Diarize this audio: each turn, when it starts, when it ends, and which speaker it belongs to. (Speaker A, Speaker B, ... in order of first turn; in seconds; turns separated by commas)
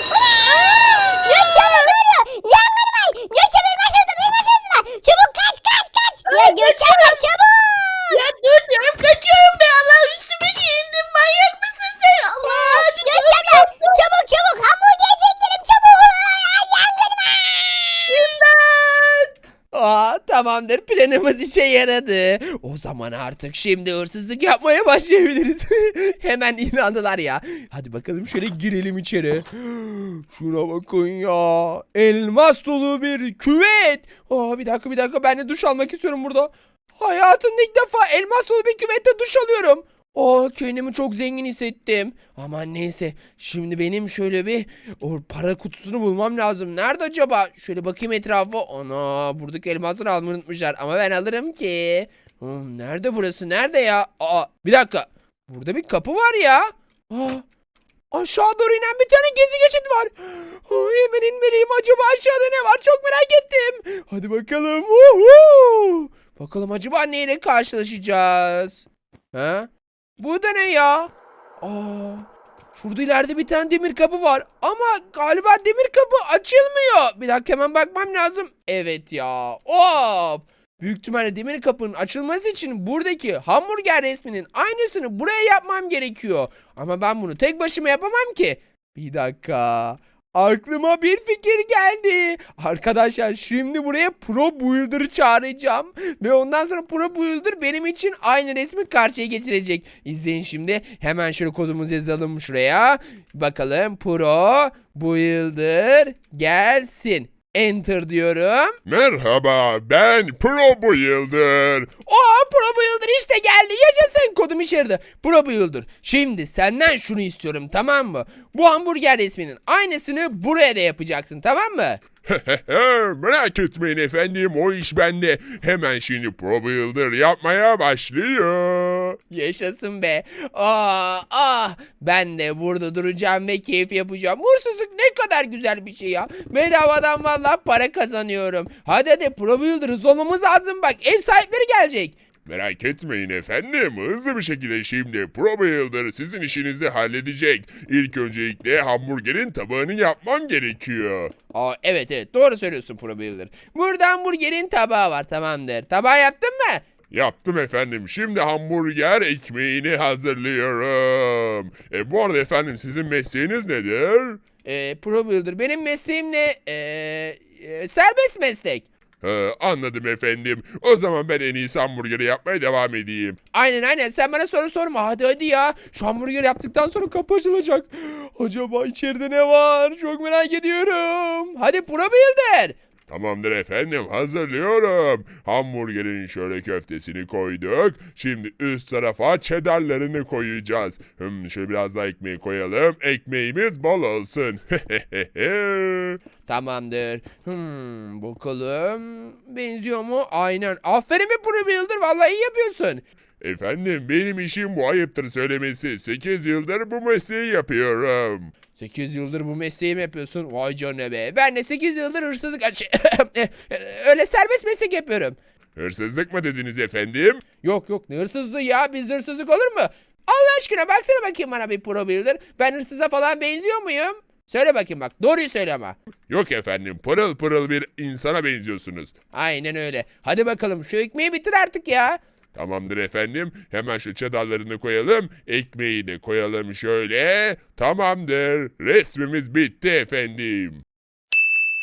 Speaker A: 0.1-8.2, Speaker B: 0.7-1.9, Speaker B: 6.3-7.2, Speaker B: 8.1-14.0, Speaker C: 12.4-13.0, Speaker A: 13.0-18.4, Speaker B: 18.1-19.3, Speaker C: 19.7-57.4, Speaker C: 58.1-108.8, Speaker D: 108.8-111.9, Speaker C: 112.0-122.0, Speaker D: 122.2-129.2, Speaker C: 129.3-142.2, Speaker D: 142.4-151.3, Speaker C: 151.5-156.8, Speaker D: 157.1-164.4, Speaker C: 164.6-168.9, Speaker D: 169.2-173.4, Speaker C: 173.5-182.8, Speaker D: 183.1-196.2, Speaker C: 196.4-203.0, Speaker D: 203.4-208.5, Speaker C: 208.7-215.4, Speaker D: 215.8-217.4, Speaker C: 217.6-226.0, Speaker D: 226.3-229.1, Speaker C: 229.3-232.2, Speaker D: 232.5-240.8